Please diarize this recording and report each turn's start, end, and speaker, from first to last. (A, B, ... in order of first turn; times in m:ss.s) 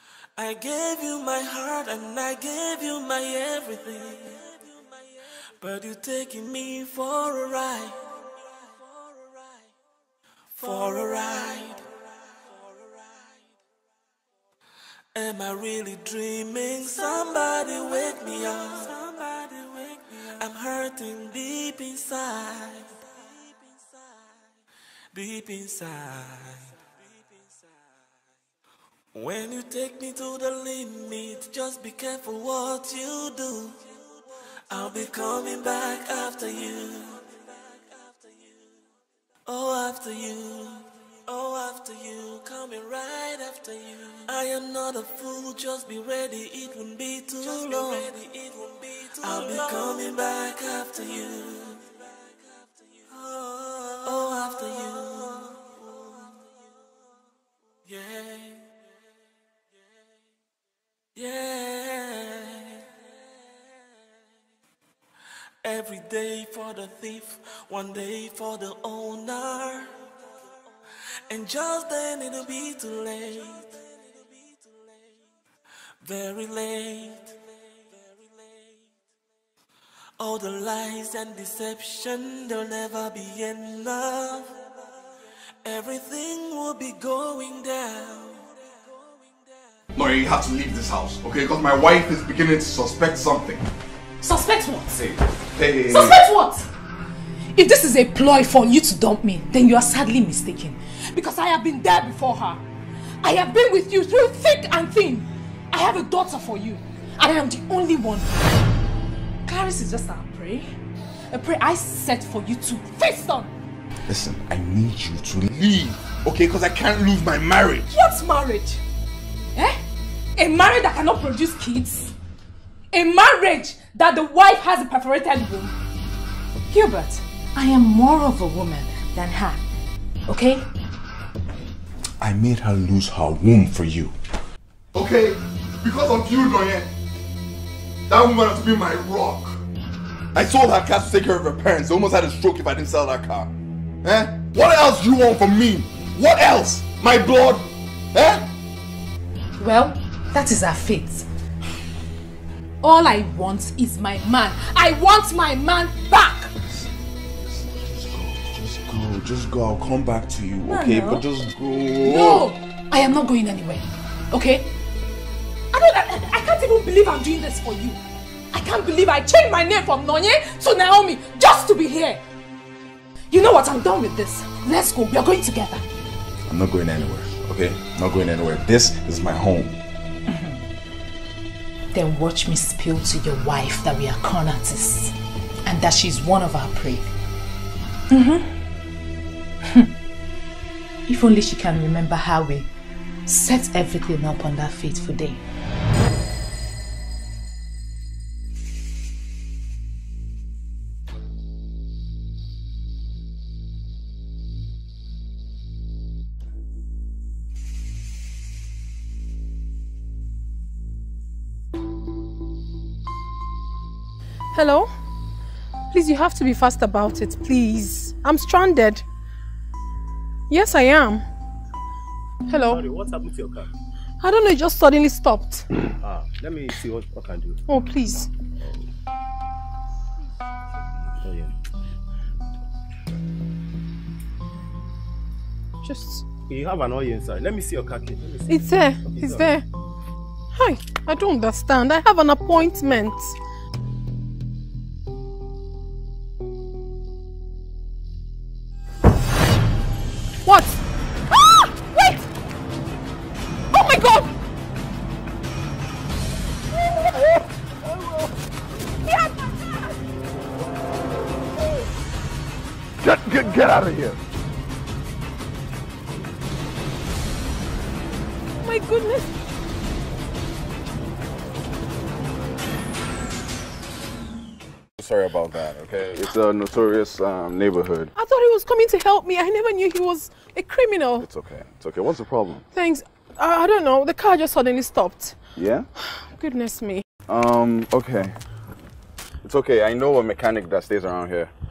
0:00.4-0:09.6 A
0:10.6-0:13.4 A
0:15.1-0:23.1 A
0:25.1-0:26.9 A
0:29.1-0:33.8 A
0:34.7-0:38.1 A
0:39.4-0:52.0 A
0:53.0-0:56.1 A
0:57.9-0:58.7 A
1:01.2-1:02.9 A
1:05.6-1:10.1 A
1:11.3-1:14.1 A
1:16.0-1:17.4 A
1:17.9-1:18.4 A
1:20.2-1:24.6 A
1:25.6-1:28.9 A
1:29.9-1:33.6 B
1:34.2-1:35.0 C
1:34.9-1:36.2 B
1:35.9-1:36.7 C
1:37.5-1:42.6 C
1:43.2-1:48.4 C
1:49.4-1:50.7 C
1:51.3-1:53.5 C
1:54.1-1:57.9 B
1:57.9-1:58.8 C
1:59.5-1:59.8 C
2:00.4-2:02.1 C
2:02.9-2:05.7 C
2:06.7-2:09.6 C
2:10.3-2:10.6 C
2:12.2-2:14.1 B
2:14.9-2:16.9 B
2:18.1-2:19.6 B
2:20.3-2:23.5 B
2:24.0-2:28.5 B
2:29.6-2:31.2 C
2:32.8-2:36.5 C
2:37.3-2:42.5 B
2:40.7-2:41.2 C
2:42.0-2:44.7 C
2:45.7-2:48.0 C
2:48.5-2:52.2 C
2:53.3-2:55.8 C
2:56.5-2:59.8 B
3:00.3-3:00.6 C
3:01.9-3:05.1 C
3:05.6-3:07.0 C
3:08.1-3:08.5 C
3:11.0-3:12.7 C
3:13.2-3:15.4 C
3:34.5-3:34.9 D
3:35.9-3:39.0 D
3:40.5-3:41.2 D
3:42.5-3:42.8 D
3:42.5-3:43.7 E
3:44.2-3:45.7 D
3:46.0-3:47.6 E
3:47.7-3:48.3 D
3:50.8-3:51.5 E
3:55.8-3:56.2 D
3:56.4-3:59.6 E
3:58.5-3:59.6 D
4:00.5-4:03.3 D
4:10.4-4:10.8 D
4:11.4-4:12.2 C
4:13.7-4:14.2 C
4:23.0-4:24.2 B
4:28.6-4:29.3 D
4:35.0-4:38.1 B
4:38.2-4:41.3 D
4:41.2-4:42.6 B
4:42.7-4:45.4 D
4:45.6-4:45.9 B
4:46.2-4:47.0 D
4:47.3-4:48.4 B
4:49.4-4:51.5 B